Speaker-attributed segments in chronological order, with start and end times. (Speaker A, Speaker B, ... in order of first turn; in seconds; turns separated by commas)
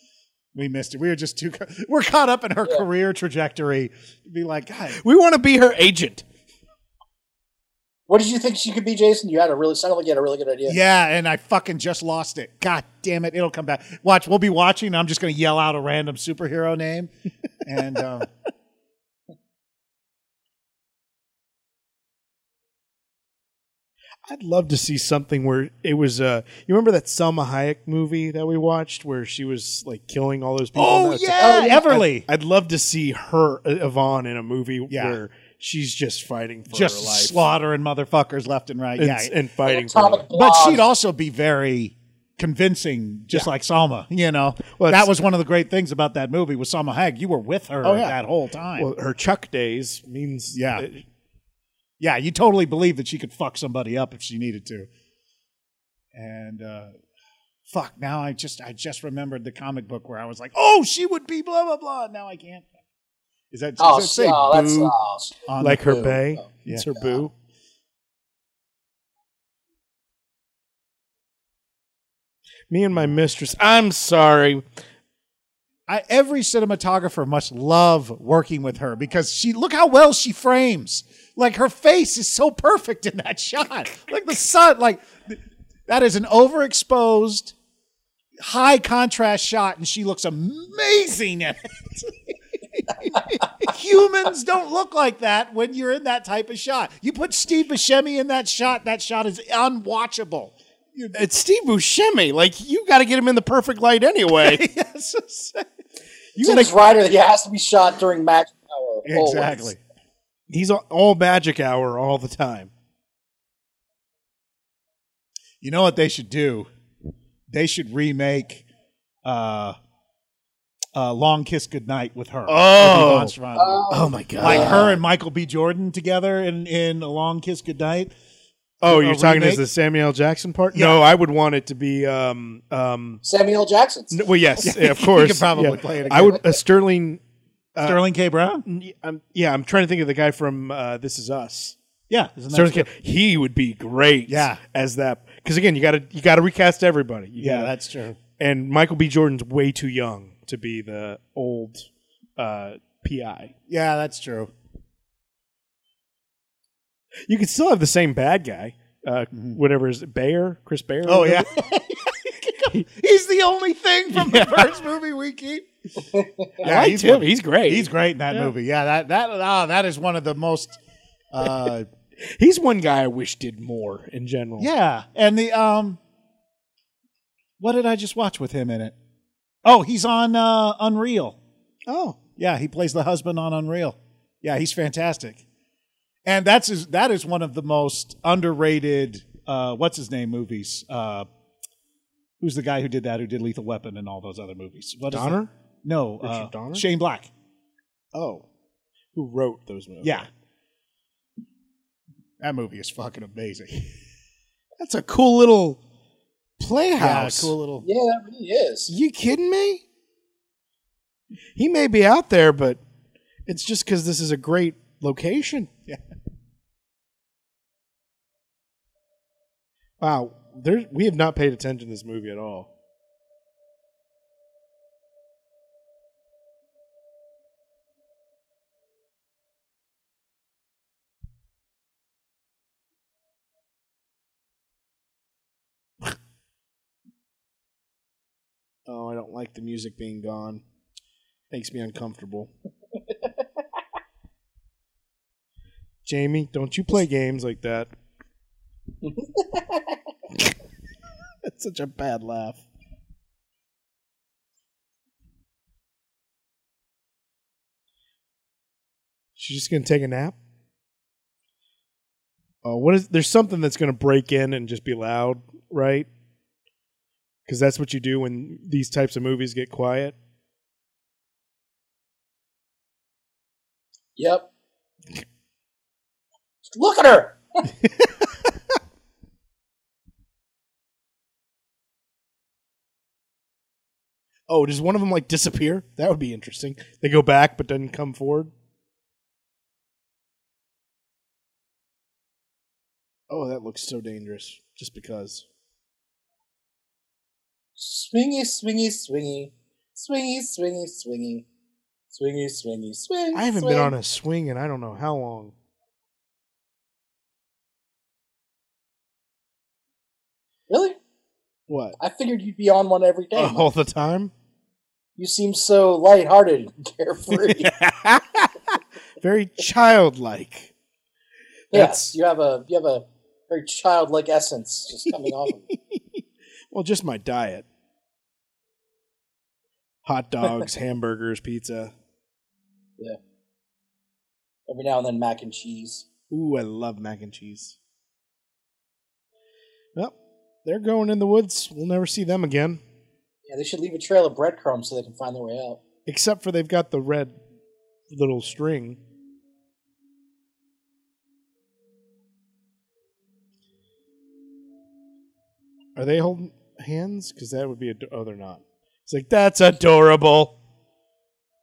Speaker A: 0.5-5.0, Speaker B: 4.9-6.2, Speaker C: 8.1-10.8, Speaker A: 10.7-17.1, Speaker A: 17.6-18.3, Speaker B: 24.2-37.5, Speaker A: 30.8-32.2, Speaker C: 31.4-31.9, Speaker A: 34.9-35.2, Speaker A: 36.7-39.3, Speaker B: 39.0-40.2, Speaker C: 39.6-40.9, Speaker A: 40.3-48.9, Speaker B: 44.8-45.1, Speaker B: 47.8-48.1, Speaker B: 48.8-51.0, Speaker A: 50.5-50.9, Speaker A: 52.0-54.9, Speaker A: 56.1-56.9, Speaker A: 57.7-62.7, Speaker A: 63.5-64.9, Speaker C: 63.8-66.5, Speaker B: 64.5-64.9, Speaker A: 65.5-67.1, Speaker B: 65.6-67.3, Speaker B: 72.7-74.6, Speaker A: 75.9-87.5, Speaker A: 88.4-101.2, Speaker B: 101.1-104.6, Speaker A: 104.4-105.6, Speaker B: 106.4-106.7, Speaker C: 106.4-109.7, Speaker A: 109.0-109.8, Speaker B: 110.5-112.7, Speaker A: 115.6-116.7, Speaker A: 117.5-118.6, Speaker A: 119.2-119.8, Speaker A: 120.9-123.8, Speaker B: 122.5-123.4, Speaker C: 123.5-124.9, Speaker B: 123.9-125.0, Speaker A: 124.4-128.1, Speaker B: 128.8-133.2, Speaker A: 128.8-129.6, Speaker A: 130.7-131.0, Speaker C: 133.2-134.2, Speaker B: 134.1-137.2, Speaker A: 134.6-136.5, Speaker B: 137.8-138.0, Speaker A: 137.8-138.6, Speaker B: 138.7-141.8, Speaker A: 142.1-142.9, Speaker B: 142.5-147.7, Speaker A: 144.3-144.6, Speaker A: 147.4-148.2, Speaker B: 148.4-153.5, Speaker A: 153.7-154.5, Speaker B: 157.3-161.6, Speaker A: 159.3-159.6, Speaker A: 161.1-165.7, Speaker B: 164.1-164.8, Speaker B: 166.6-168.5, Speaker A: 166.6-170.8, Speaker A: 171.3-171.9, Speaker B: 172.2-174.7, Speaker A: 174.6-176.0, Speaker A: 177.6-178.9, Speaker A: 179.7-181.4, Speaker B: 181.9-182.2, Speaker A: 182.4-185.4, Speaker A: 186.2-191.3, Speaker A: 192.4-197.3, Speaker B: 195.1-195.5, Speaker B: 196.2-196.8, Speaker B: 198.1-198.5, Speaker B: 199.1-200.3, Speaker A: 200.0-200.3, Speaker A: 202.4-203.9, Speaker B: 204.8-205.8, Speaker B: 206.6-207.5, Speaker A: 207.0-207.8, Speaker C: 207.8-208.9, Speaker B: 208.9-209.8, Speaker B: 211.6-212.8, Speaker B: 213.5-215.7, Speaker B: 220.0-222.7, Speaker B: 238.8-240.6, Speaker B: 241.5-242.5, Speaker B: 246.0-247.9, Speaker C: 249.0-250.0, Speaker B: 251.4-252.6, Speaker B: 259.4-260.4, Speaker B: 262.6-266.1, Speaker B: 267.5-270.2, Speaker C: 274.2-274.5, Speaker C: 276.7-277.7, Speaker B: 284.5-288.5, Speaker B: 293.3-295.4, Speaker C: 297.8-301.4, Speaker C: 302.1-303.9, Speaker B: 303.3-305.5, Speaker C: 310.7-311.0, Speaker B: 311.7-312.0, Speaker C: 312.0-313.7, Speaker B: 313.3-314.3, Speaker C: 315.2-317.7, Speaker B: 317.3-320.7, Speaker B: 321.7-322.1, Speaker C: 321.7-325.7, Speaker B: 325.1-327.7, Speaker B: 330.0-331.9, Speaker C: 334.7-336.1, Speaker B: 336.3-337.8, Speaker B: 339.9-342.8, Speaker C: 343.5-345.8, Speaker B: 346.1-347.3, Speaker B: 348.1-349.0, Speaker B: 356.0-360.6